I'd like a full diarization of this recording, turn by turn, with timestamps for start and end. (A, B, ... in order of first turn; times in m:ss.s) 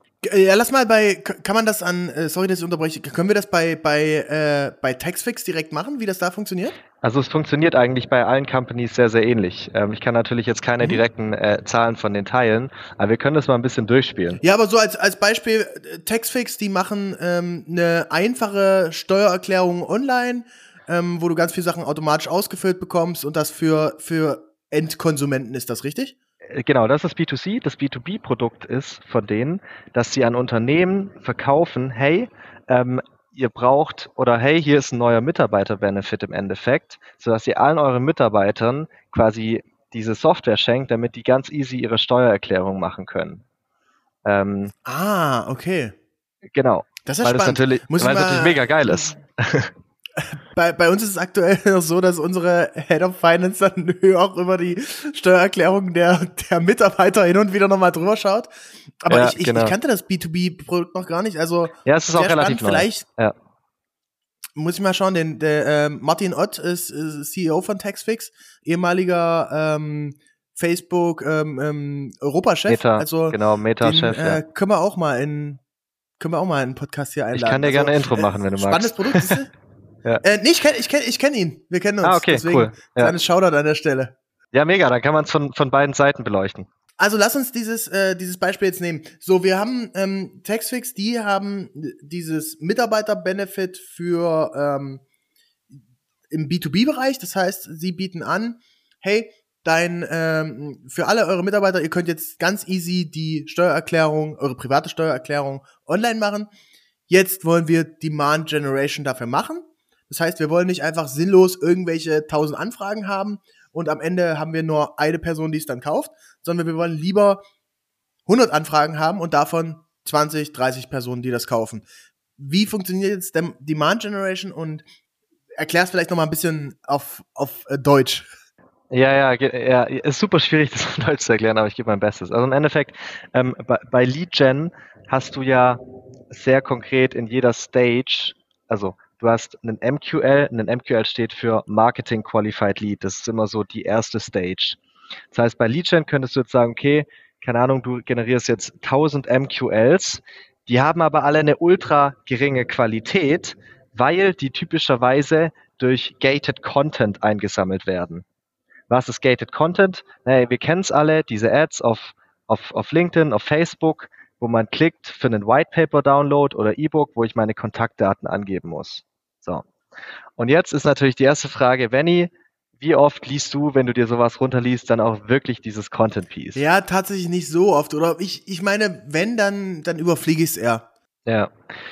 0:00.2-0:06.8 A
0:07.0-0:14.4 B
0:14.4-0:26.2 A
0:26.5-0:43.4 B
0:44.2-0:44.7 B
0:44.8-0:46.0 A
0:46.5-0:49.7 B
0:47.0-0:49.2 A
0:50.2-0:58.5 A
0:59.0-1:03.1 A
0:59.1-0:59.8 B
1:01.8-1:03.4 B
1:04.6-1:15.6 A
1:12.7-1:14.4 B
1:16.2-1:19.5 A
1:17.3-1:19.4 B
1:20.2-1:24.2 A
1:22.0-1:23.1 B
1:24.5-1:26.7 B
1:27.0-1:35.0 A
1:36.3-1:46.5 A
1:47.1-1:57.4 A
1:58.3-2:01.9 A
2:02.4-2:04.8 A
2:05.6-2:08.3 A
2:08.9-2:24.8 B
2:25.3-2:38.2 B
2:38.9-2:49.7 B
2:50.4-2:56.6 B
2:56.6-3:00.9 A
3:01.3-3:01.5 B